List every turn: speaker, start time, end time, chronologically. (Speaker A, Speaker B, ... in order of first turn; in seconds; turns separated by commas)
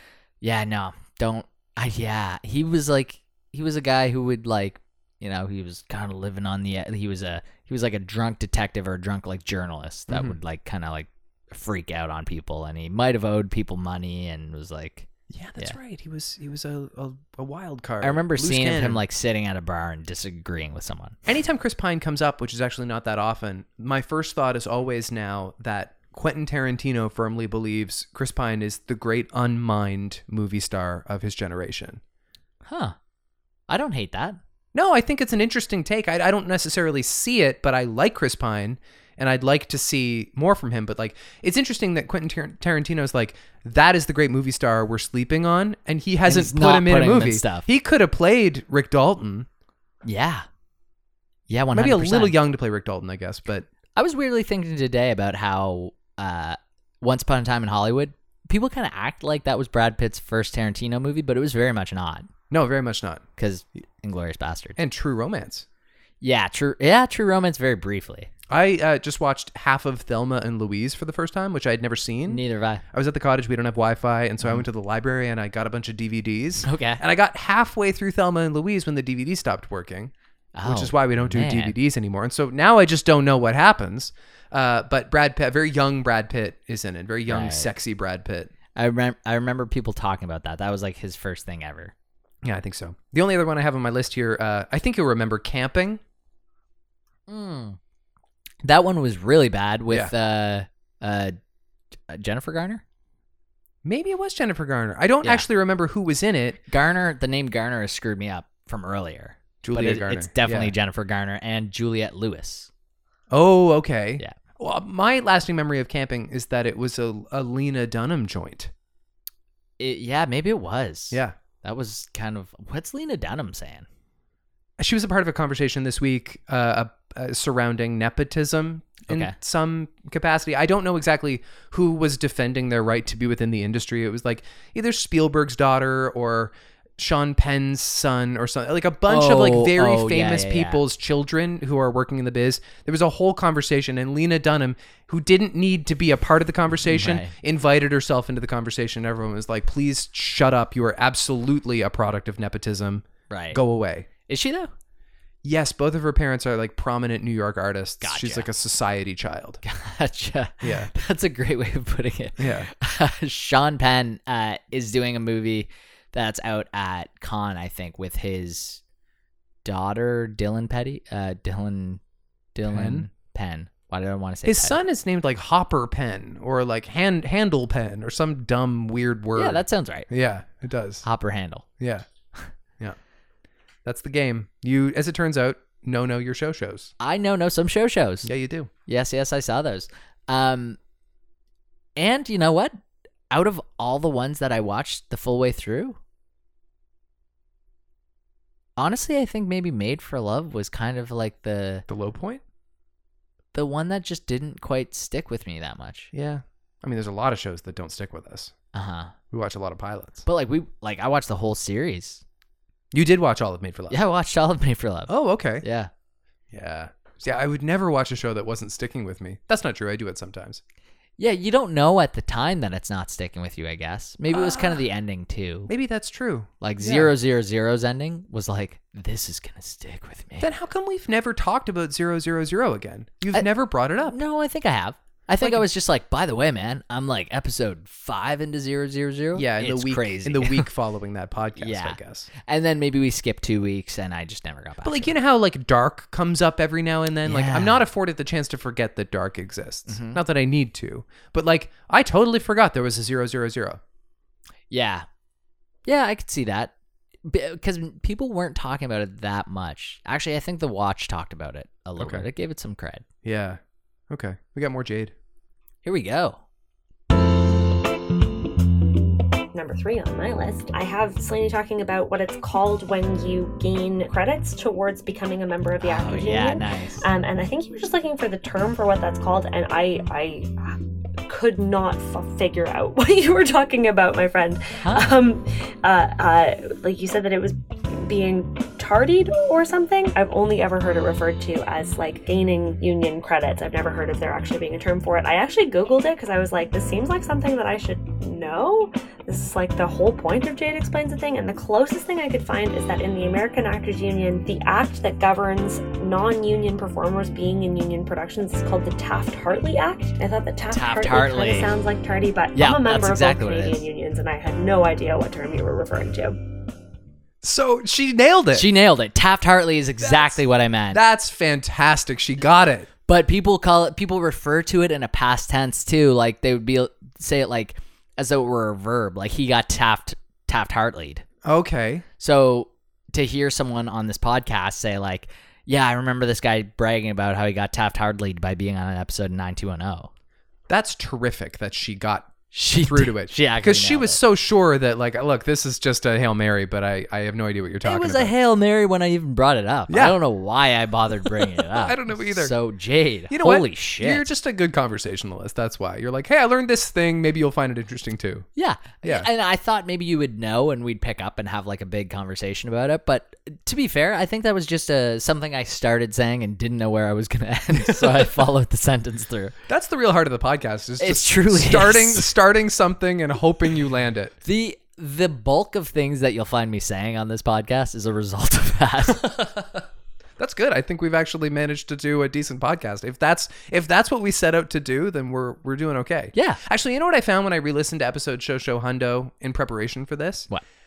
Speaker A: 0.4-15.8, Speaker B: 10.1-10.4, Speaker B: 15.3-19.0, Speaker A: 18.0-21.2, Speaker B: 21.2-32.0, Speaker A: 32.6-32.9, Speaker A: 33.7-34.4, Speaker B: 34.7-49.5, Speaker A: 46.2-47.7, Speaker A: 50.0-50.5, Speaker A: 51.5-52.3, Speaker B: 51.7-53.7, Speaker A: 53.9-62.3, Speaker B: 62.5-63.2, Speaker A: 63.4-64.8, Speaker B: 64.8-65.7, Speaker A: 66.2-68.3, Speaker B: 68.5-80.1, Speaker A: 72.3-72.8, Speaker A: 76.6-77.0, Speaker A: 80.5-81.7, Speaker B: 80.6-88.5, Speaker A: 87.2-87.7, Speaker A: 88.7-91.9, Speaker B: 92.4-96.0, Speaker A: 97.3-97.8, Speaker A: 98.6-101.4, Speaker A: 102.1-102.8, Speaker B: 103.8-106.6, Speaker A: 106.7-112.7, Speaker B: 109.6-110.7, Speaker B: 113.3-118.7, Speaker A: 119.8-123.9, Speaker B: 124.8-154.1, Speaker A: 129.1-129.3, Speaker A: 139.1-140.8, Speaker A: 146.9-147.3, Speaker A: 153.3-153.6, Speaker A: 154.3-154.7, Speaker B: 155.4-159.6, Speaker A: 158.0-158.5, Speaker A: 159.6-168.8, Speaker B: 160.6-160.9, Speaker B: 162.4-162.7, Speaker A: 169.6-172.0, Speaker A: 172.5-174.8, Speaker B: 172.7-173.1, Speaker B: 174.4-181.0, Speaker A: 179.3-180.1, Speaker A: 181.0-181.6, Speaker B: 181.8-182.1, Speaker B: 183.8-186.9, Speaker A: 187.0-188.3, Speaker B: 188.2-188.7, Speaker A: 188.9-190.8, Speaker A: 191.9-192.8, Speaker A: 193.3-196.0, Speaker A: 198.8-201.8, Speaker B: 201.9-202.4, Speaker A: 203.5-206.1, Speaker B: 206.1-208.5, Speaker A: 208.7-209.1, Speaker B: 209.3-210.2, Speaker A: 210.2-212.2, Speaker B: 212.9-214.0, Speaker A: 213.9-215.9, Speaker B: 215.1-215.6, Speaker B: 216.5-220.6, Speaker A: 221.2-225.7, Speaker B: 224.3-224.8, Speaker B: 225.7-227.1, Speaker A: 226.6-230.5, Speaker B: 230.4-234.2, Speaker A: 234.1-240.7, Speaker B: 235.4-235.7, Speaker B: 239.3-242.3, Speaker A: 241.6-245.1, Speaker B: 244.8-253.8, Speaker A: 247.2-247.8, Speaker A: 249.9-250.2, Speaker A: 254.7-255.1, Speaker A: 255.8-256.7, Speaker A: 257.2-263.0, Speaker B: 262.0-262.2, Speaker B: 263.2-263.6, Speaker B: 264.1-265.1, Speaker A: 265.8-266.4, Speaker C: 269.5-316.4, Speaker A: 275.8-277.0, Speaker A: 284.8-285.1, Speaker A: 310.7-311.7, Speaker A: 312.5-313.8, Speaker B: 317.4-318.7, Speaker A: 318.5-321.0, Speaker B: 320.0-320.4, Speaker B: 320.9-322.9, Speaker A: 323.1-331.2, Speaker B: 331.4-332.0, Speaker A: 332.2-340.1, Speaker B: 340.7-348.3, Speaker A: 342.5-344.2, Speaker A: 347.8-354.3, Speaker B: 349.9-350.2, Speaker B: 351.4-352.5, Speaker B: 353.3-358.4, Speaker A: 358.6-369.6, Speaker B: 359.0-359.3, Speaker B: 367.7-368.5, Speaker B: 369.7-374.3, Speaker A: 371.0-372.3, Speaker A: 374.4-379.2, Speaker B: 379.1-379.8, Speaker B: 380.4-390.5, Speaker A: 386.3-386.6